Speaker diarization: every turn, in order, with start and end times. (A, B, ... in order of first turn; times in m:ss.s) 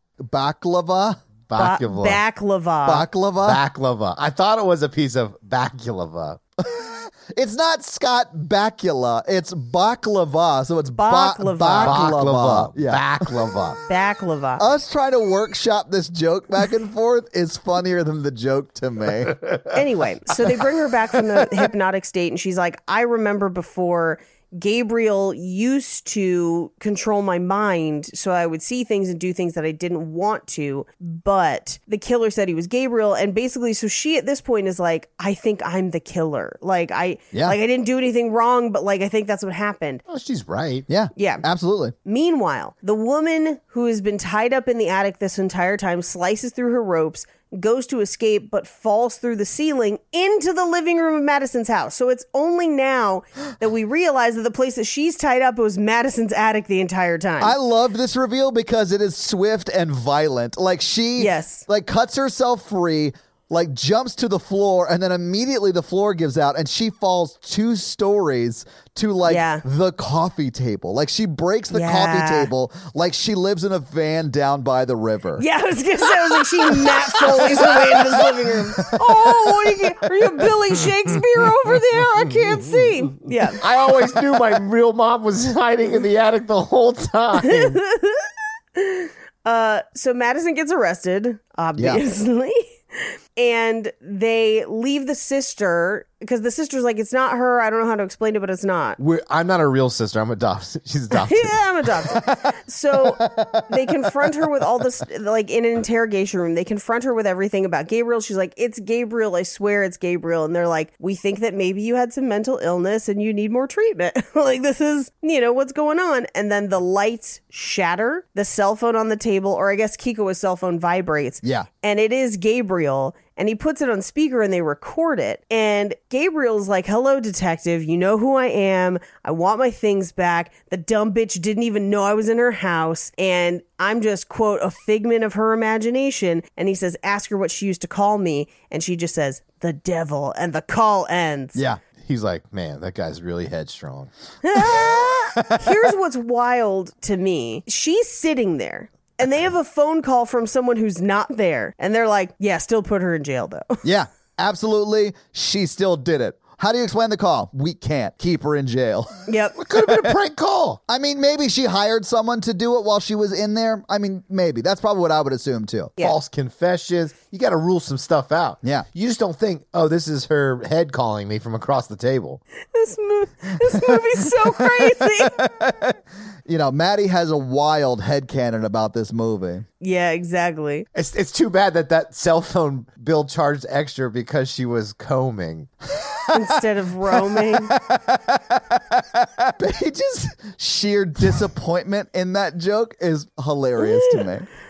0:00.2-0:01.2 A
0:01.5-0:02.2 B
0:01.6-0:03.1 C
0:02.8-0:03.6 A
0:03.4-0:06.4 B
0:06.6-0:13.3 A
0:11.0-0:12.0 C
0:11.8-0:13.8 B
0:13.9-0:14.6 C
0:14.6-0:19.4 A
0:19.3-0:19.7 B
0:19.7-0:40.0 C
0:40.1-0:40.9 B
0:40.9-0:41.9 A
0:41.1-0:41.4 C
0:42.0-0:57.6 C
0:57.4-1:15.4 A
1:01.2-1:01.6 C
1:09.3-1:09.6 C
1:11.7-1:12.5 C
1:15.4-1:23.6 C
1:17.3-1:18.0 B
1:23.6-1:27.8 B
1:27.5-1:39.0 C
1:31.8-1:32.0 A
1:39.0-1:42.1 B
1:41.1-2:21.6 C
1:43.2-1:43.6 A
2:21.5-2:21.8 A
2:22.0-2:24.1 B
2:24.4-2:33.8 C
2:25.4-2:25.8 A
2:33.8-2:40.2 A
2:39.3-2:39.6 C
2:39.6-2:40.8 B
2:40.9-2:45.9 A
2:46.0-2:52.4 B
2:52.7-2:55.4 C
2:54.6-2:59.6 A
2:59.8-3:00.8 C
3:00.9-3:05.7 B
3:06.0-3:06.2 A
3:06.3-3:07.7 C
3:07.5-3:14.5 A
3:13.8-3:14.2 C